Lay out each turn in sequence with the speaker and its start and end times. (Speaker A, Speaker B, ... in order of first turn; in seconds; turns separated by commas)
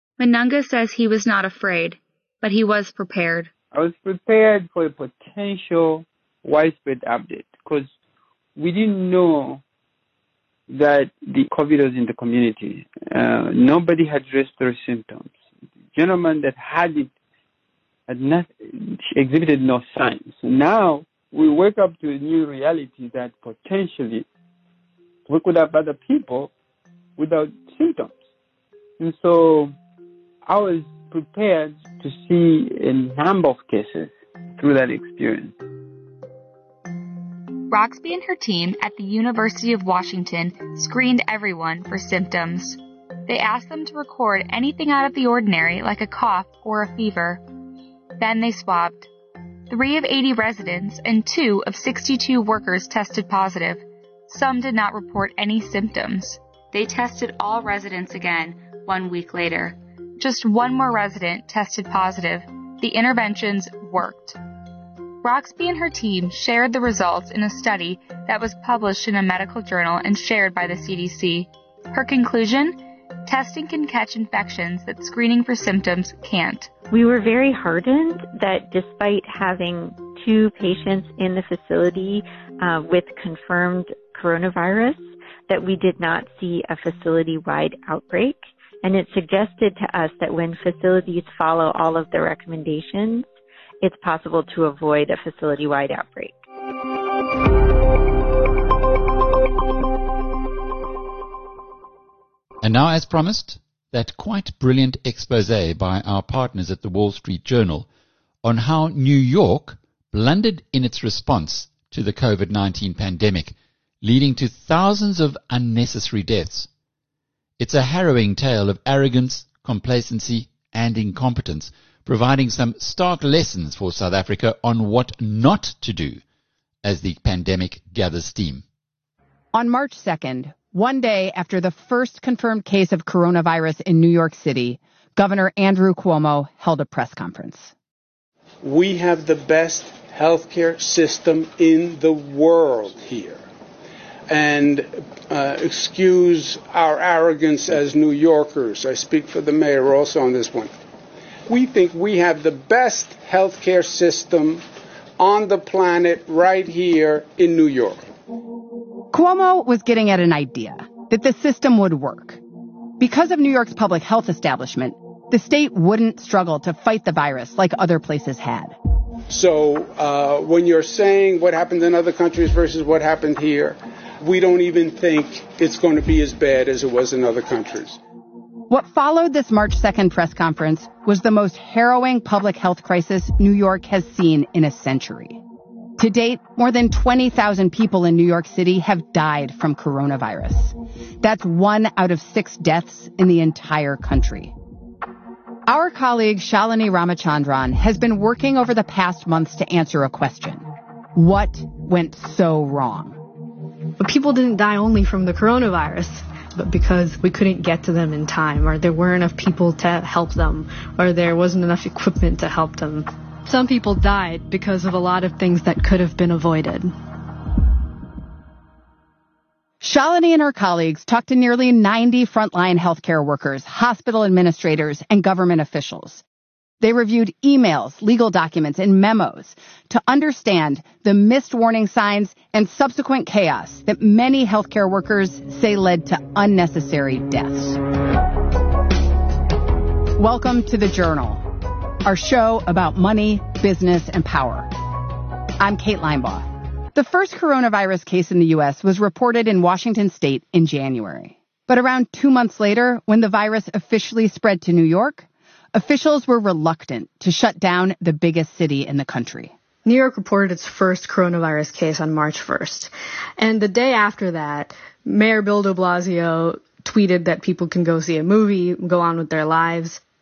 Speaker A: 0.2-3.5, Speaker B: 3.7-7.9, Speaker B: 8.6-9.6, Speaker B: 10.7-15.3, Speaker B: 15.9-17.1, Speaker B: 18.1-24.2, Speaker B: 25.3-26.5, Speaker B: 27.2-28.2, Speaker B: 29.0-29.7, Speaker B: 30.4-35.6, Speaker A: 37.7-47.4, Speaker A: 48.2-49.1, Speaker A: 49.7-64.4, Speaker A: 65.2-76.7, Speaker C: 76.9-93.3, Speaker C: 93.8-96.3, Speaker D: 102.6-107.9, Speaker D: 108.4-116.7, Speaker D: 117.6-126.2, Speaker D: 126.8-128.6, Speaker E: 129.5-137.7, Speaker F: 138.6-143.4, Speaker F: 144.3-150.7, Speaker F: 151.5-154.6, Speaker F: 155.2-158.1, Speaker E: 159.1-162.4, Speaker E: 163.0-168.8, Speaker F: 169.3-178.0, Speaker E: 178.7-185.4, Speaker E: 186.0-194.5, Speaker E: 195.7-203.2, Speaker G: 204.0-216.9, Speaker E: 219.8-226.2, Speaker E: 226.8-237.8, Speaker E: 240.1-241.4, Speaker E: 242.0-244.7, Speaker E: 245.6-259.5, Speaker G: 259.8-270.0